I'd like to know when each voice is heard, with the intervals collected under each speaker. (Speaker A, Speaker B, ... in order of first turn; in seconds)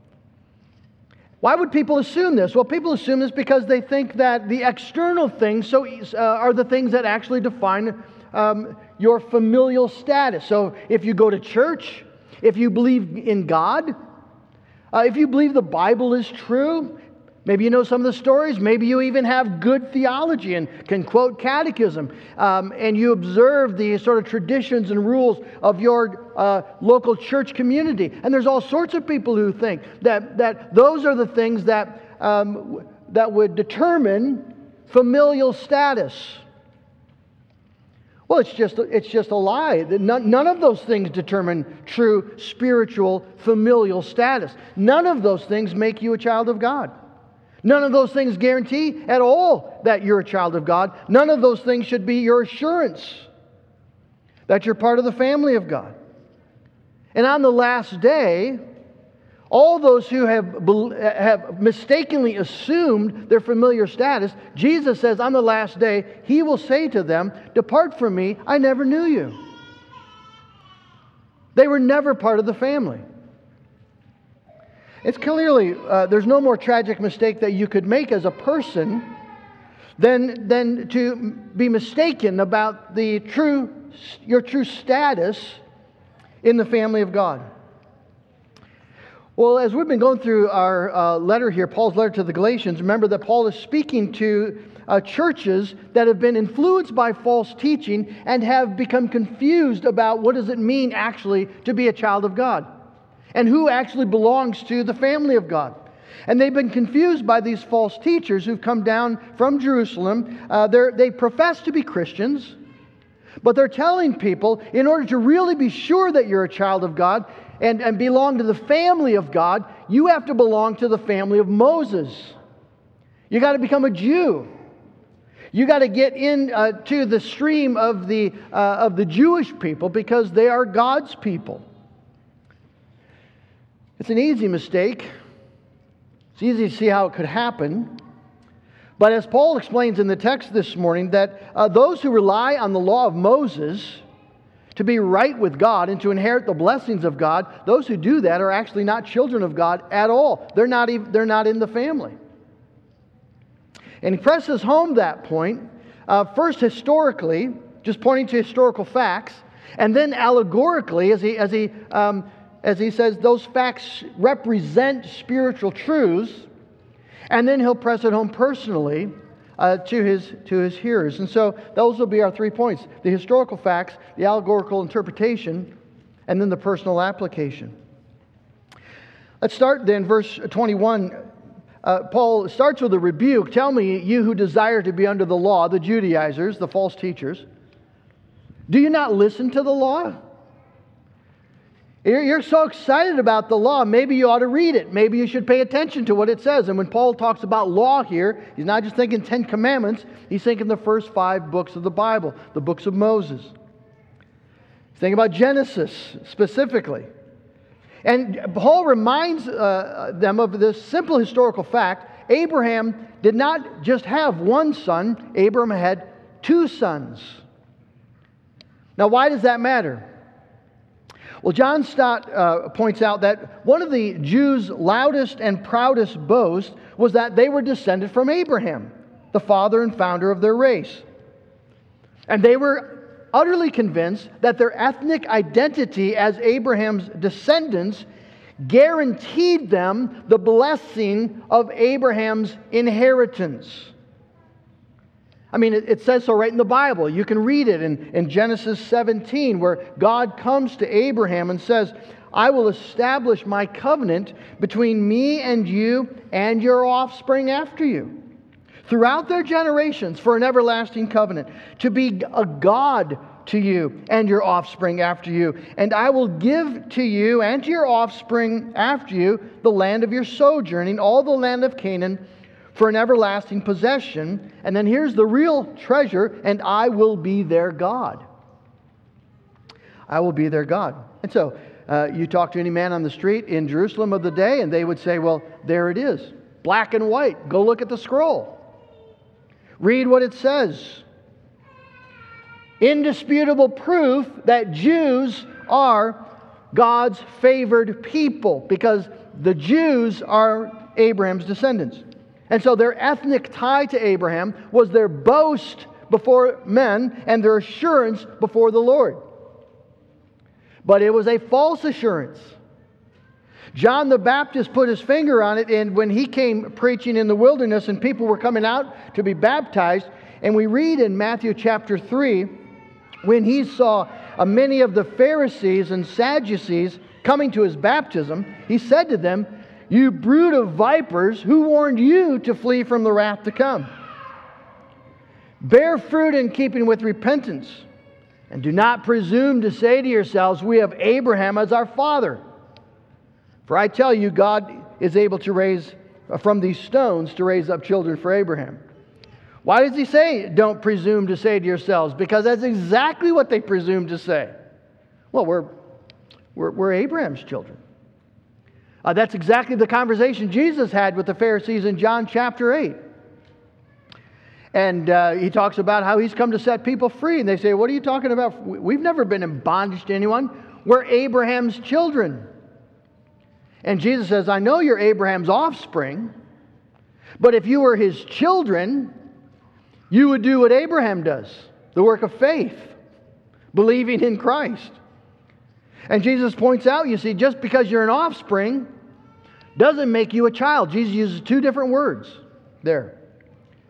Speaker A: 1.4-13.9, 14.9-36.4, 38.3-46.9, 47.6-53.3, 54.5-55.9, 57.1-58.6, 59.5-69.3, 71.5-73.0, 75.0-79.1, 80.0-85.6, 86.4-87.4, 89.3-102.7, 103.3-112.5, 113.4-122.3, 123.3-124.5, 125.5-131.6, 134.0-135.1, 136.3-138.0, 139.0-144.0, 144.7-152.1, 154.0-166.5, 167.3-175.7, 176.3-177.7, 179.4-181.2, 181.8-187.4, 188.7-190.2, 192.0-203.5, 204.9-207.1, 208.0-217.4, 219.0-220.0, 221.4-231.0, 232.3-238.1, 238.6-243.9, 245.5-258.2, 258.9-272.2, 272.7-278.2, 280.1-288.6, 289.8-291.0, 292.8-296.2, 296.7-309.2, 310.8-312.6, 313.7-322.5, 323.2-333.9, 335.6-337.8, 338.5-342.4, 343.7-348.8, 349.6-354.5, 355.3-355.7, 356.5-357.8, 359.0-363.0, 364.7-372.4, 373.8-376.3, 377.4-379.1, 380.1-382.9, 383.7-385.0, 386.1-388.9, 389.8-393.1